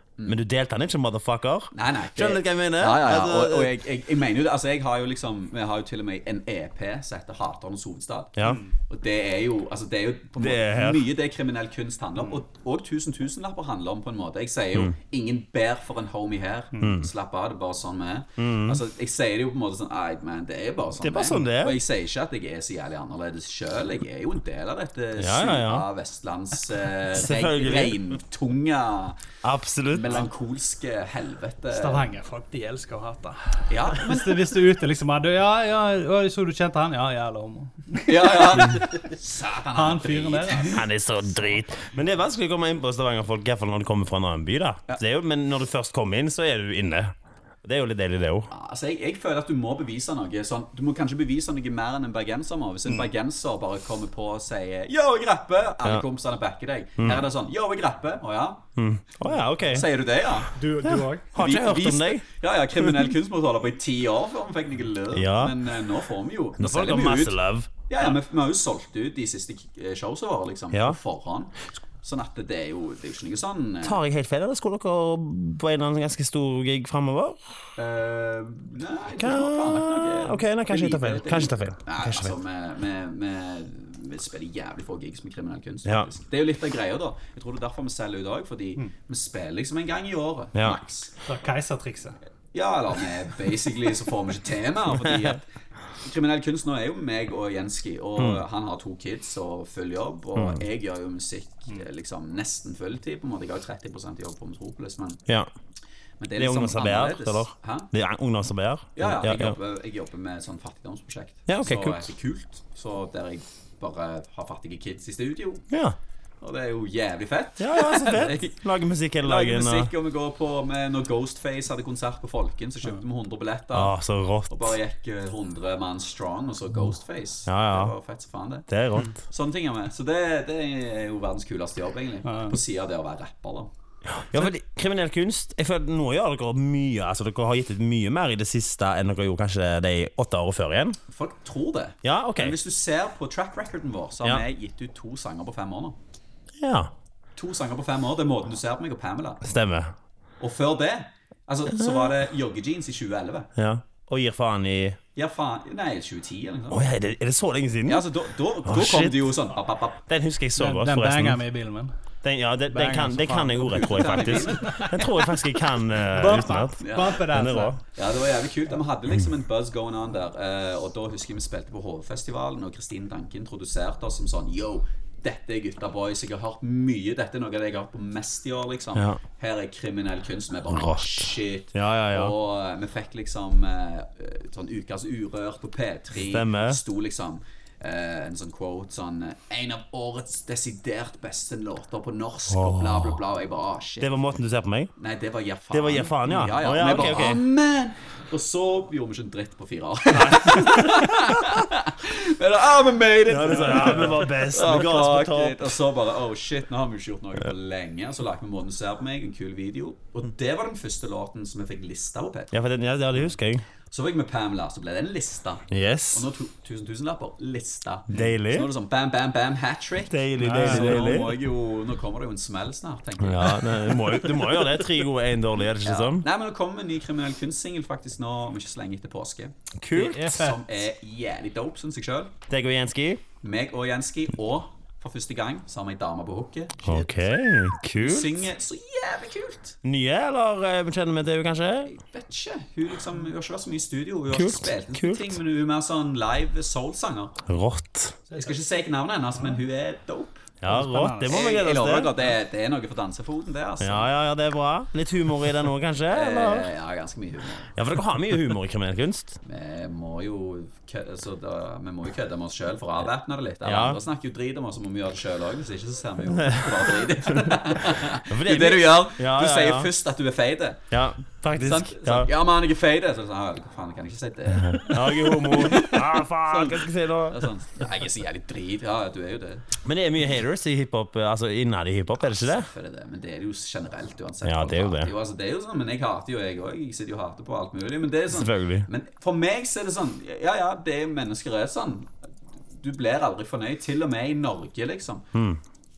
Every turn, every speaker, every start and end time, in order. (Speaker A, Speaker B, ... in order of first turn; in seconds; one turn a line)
Speaker A: 0.2-3.7
Speaker B: 1.7-29.2
Speaker A: 8.3-8.6
Speaker C: 8.4-8.7
Speaker A: 10.4-11.1
Speaker A: 16.8-17.1
Speaker A: 18.4-18.8
Speaker A: 21.0-21.8
Speaker A: 25.1-25.9
Speaker A: 27.1-28.1
Speaker A: 29.4-30.3
Speaker B: 29.9-32.0
Speaker C: 31.7-38.9
Speaker B: 33.7-34.4
Speaker B: 38.0-40.8
Speaker C: 39.7-40.8
Speaker A: 40.7-48.5
Speaker B: 48.5-58.6
Speaker A: 57.0-57.2
Speaker A: 58.8-59.9
Speaker B: 59.6-60.5
Speaker C: 60.5-61.3
Speaker A: 60.8-62.2
Speaker B: 61.3-74.0
Speaker A: 62.8-63.1
Speaker A: 65.1-65.6
Speaker A: 66.6-67.7
Speaker A: 70.7-71.0
Speaker A: 73.8-77.4
Speaker B: 77.8-91.1
Speaker A: 79.2-82.3
Speaker A: 90.5-90.8
Speaker C: 91.2-92.2
Speaker B: 92.5-95.5
Speaker A: 94.9-95.3
Speaker B: 96.0-105.2
Speaker A: 100.3-100.6
Speaker B: 106.2-107.9
Speaker A: 106.3-109.5
Speaker B: 109.0-115.6
Speaker A: 111.5-112.1
Speaker A: 115.7-116.0
Speaker B: 116.4-118.6
Speaker A: 117.6-119.9
Speaker B: 119.2-124.0
Speaker A: 123.7-124.7
Speaker B: 124.5-128.7
Speaker A: 127.5-127.9
Speaker A: 128.7-129.1
Speaker B: 129.2-133.7
Speaker C: 132.2-132.6
Speaker A: 134.1-141.0
Speaker B: 141.1-146.0
Speaker A: 142.0-142.6
Speaker A: 146.6-146.9
Speaker B: 147.3-149.4
Speaker A: 149.4-149.9
Speaker B: 150.4-153.5
Speaker A: 151.7-152.1
Speaker A: 153.6-155.0
Speaker B: 155.1-156.9
Speaker A: 156.7-158.1
Speaker B: 157.8-160.0
Speaker A: 158.6-159.3
Speaker A: 160.1-161.4
Speaker C: 160.6-161.9
Speaker A: 162.2-167.8
Speaker C: 162.7-165.2
Speaker B: 163.6-164.8
Speaker C: 166.1-167.8
Speaker B: 166.8-167.2
Speaker B: 167.9-194.1
Speaker A: 178.9-179.2
Speaker A: 180.7-182.3
Speaker A: 186.2-186.8
Speaker A: 192.5-193.2
Speaker A: 194.0-194.9
Speaker B: 195.0-212.5
Speaker A: 195.7-197.4
Speaker A: 200.1-201.5
Speaker A: 203.3-205.7
Speaker A: 212.5-213.6
Speaker B: 213.9-224.2
Speaker A: 215.7-216.3
Speaker A: 218.1-218.7
Speaker A: 220.1-221.4
Speaker C: 220.4-221.0
Speaker A: 223.2-226.2
Speaker B: 225.8-232.3
Speaker A: 229.8-230.3
Speaker C: 229.9-230.6
Speaker A: 232.5-233.2
Speaker B: 233.4-237.0
Speaker A: 236.8-238.4
Speaker B: 238.0-239.8
Speaker A: 239.8-241.9
Speaker B: 241.8-247.4
Speaker A: 244.3-245.4
Speaker A: 247.4-248.2
Speaker B: 248.4-250.5
Speaker A: 250.6-252.1
Speaker C: 250.7-251.3
Speaker B: 251.3-254.1
Speaker A: 253.8-256.7
Speaker B: 256.1-257.7
Speaker A: 257.7-259.4
Speaker B: 259.4-270.8
Speaker A: 263.6-264.0
Speaker A: 266.3-269.9
Speaker A: 270.9-272.3
Speaker B: 271.5-279.7
Speaker A: 274.5-277.5
Speaker A: 279.8-282.7
Speaker B: 282.2-292.1
Speaker A: 284.4-285.1
Speaker A: 288.3-288.9
Speaker B: 292.7-295.3
Speaker A: 295.3-295.6